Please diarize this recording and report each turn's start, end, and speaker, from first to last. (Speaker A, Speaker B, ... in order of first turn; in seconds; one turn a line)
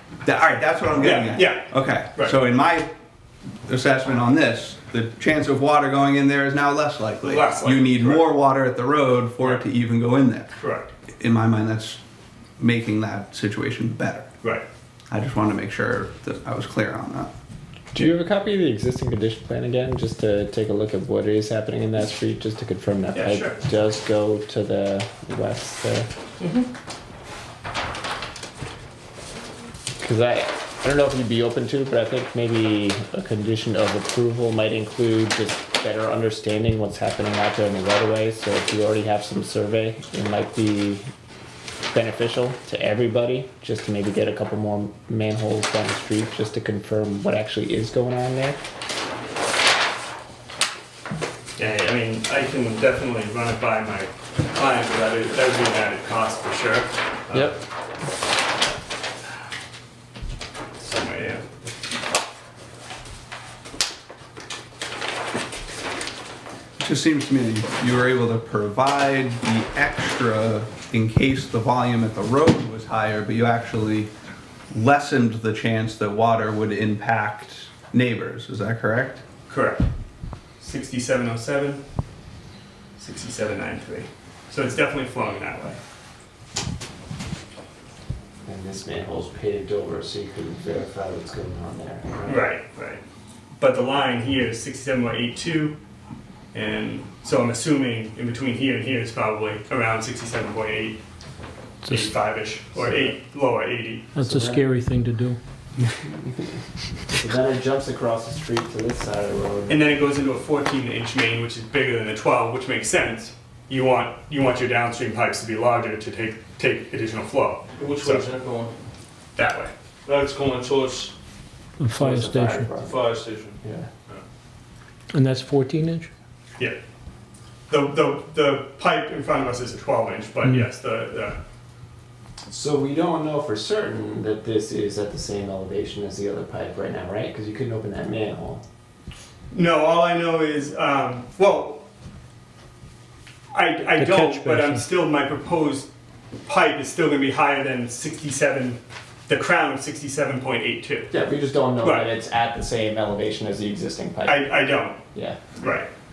Speaker A: 0.2-2.9
Speaker B: 1.0-2.4
Speaker A: 3.7-10.5
Speaker B: 7.2-8.3
Speaker B: 10.6-10.9
Speaker A: 11.2-12.0
Speaker A: 12.6-14.3
Speaker A: 15.1-17.3
Speaker C: 17.9-26.1
Speaker B: 23.1-23.6
Speaker B: 26.4-26.7
Speaker C: 30.0-41.0
Speaker C: 41.9-48.6
Speaker B: 51.6-57.6
Speaker C: 57.3-57.6
Speaker B: 60.8-61.5
Speaker A: 66.8-74.1
Speaker A: 74.7-79.2
Speaker B: 79.5-79.9
Speaker B: 80.6-81.8
Speaker B: 83.0-85.8
Speaker C: 88.5-92.5
Speaker B: 92.2-93.0
Speaker B: 93.6-95.8
Speaker B: 96.5-101.0
Speaker D: 101.8-102.1
Speaker B: 101.8-104.2
Speaker C: 102.8-103.1
Speaker D: 104.2-105.4
Speaker C: 104.2-104.6
Speaker C: 106.0-106.6
Speaker C: 107.1-109.9
Speaker B: 109.7-118.3
Speaker E: 117.8-118.7
Speaker B: 119.4-119.7
Speaker E: 120.1-121.1
Speaker D: 121.8-122.7
Speaker C: 122.0-123.1
Speaker E: 122.8-123.5
Speaker C: 123.6-123.9
Speaker D: 125.1-126.1
Speaker B: 127.7-131.4
Speaker C: 132.5-138.6
Speaker B: 139.5-141.8
Speaker B: 143.5-145.9
Speaker D: 144.0-144.8
Speaker B: 146.4-151.1
Speaker C: 151.1-155.4
Speaker B: 151.8-152.1
Speaker B: 154.2-155.0
Speaker B: 155.6-155.9